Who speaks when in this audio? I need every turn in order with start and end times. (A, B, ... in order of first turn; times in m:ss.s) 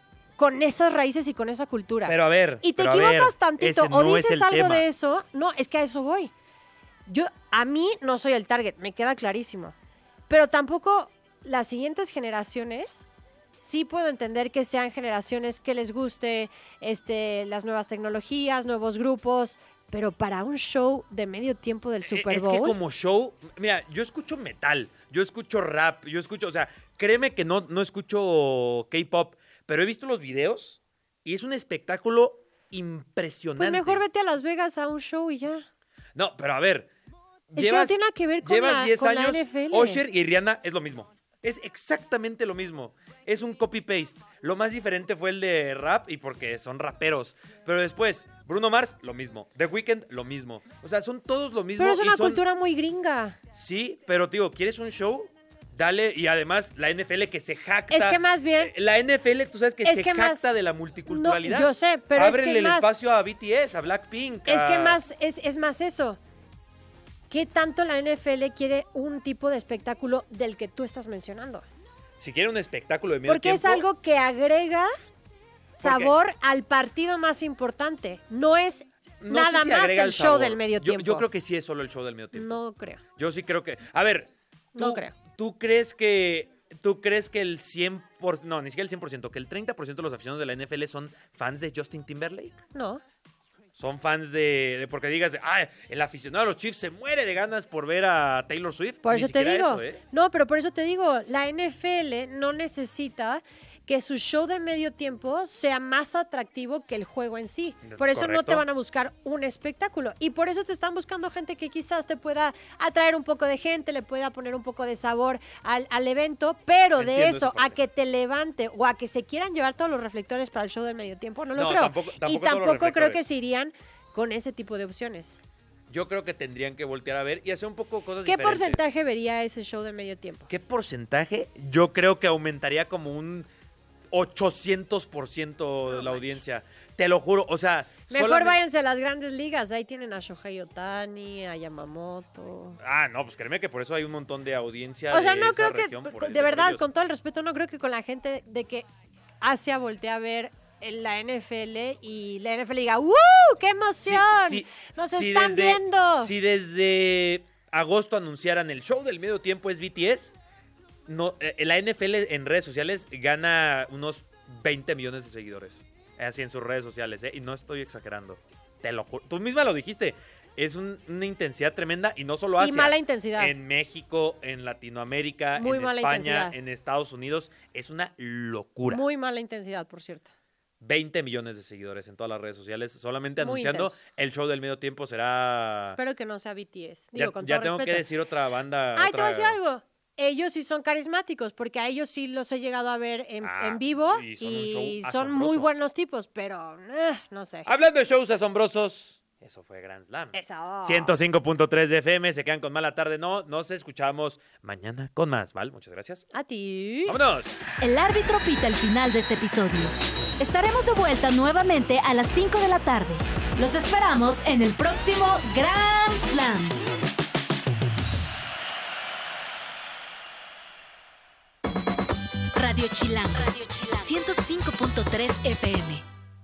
0:00.4-0:06.3 A
0:02.1-0:04.8 B
0:07.1-0:09.8 A
0:10.3-0:13.1 A
0:13.6-0:22.8 A
0:22.0-0:34.0 B
0:33.6-0:35.7 A
0:36.2-0:36.9 B
0:37.5-0:52.4 B
0:37.6-0:40.0 A
0:51.8-0:53.4 A
0:53.5-1:05.0 B
0:57.9-0:58.7 A
0:59.8-1:00.5 A
1:01.1-1:02.9 A
1:04.5-1:06.2 A
1:07.3-1:11.6 A
1:12.2-1:13.8 B
1:13.3-1:14.9 A
1:15.8-1:21.3 A
1:15.8-1:16.1 B
1:19.2-1:22.6 B
1:22.3-1:23.0 A
1:23.2-1:32.6 B
1:24.8-1:25.1 A
1:32.8-1:33.0 A
1:33.8-1:40.0 B
1:39.0-2:05.4 A
1:47.8-1:48.6 B
1:57.0-1:57.8 B
2:01.6-2:03.2 B
2:05.9-2:08.8 B
2:08.3-2:10.5 A
2:10.5-2:13.5 B
2:14.1-2:18.6 B
2:15.9-2:16.4 A
2:18.1-2:22.8 A
2:22.8-2:26.8 B
2:25.1-2:28.9 A
2:29.4-2:36.3 A
2:34.0-2:40.4 B
2:41.1-2:59.0 B
2:52.6-2:53.5 A
2:55.6-2:56.6 A
2:58.9-3:00.3 A
3:00.8-3:06.0 B
3:03.4-3:04.0 A
3:05.9-3:08.1 A
3:07.1-3:09.6 B
3:09.0-3:17.7 A
3:13.4-3:15.7 B
3:17.7-3:26.3 B
3:20.3-3:21.2 A
3:26.3-3:27.2 A
3:27.1-3:27.6 B
3:27.8-3:36.9 C
3:42.6-3:46.0 C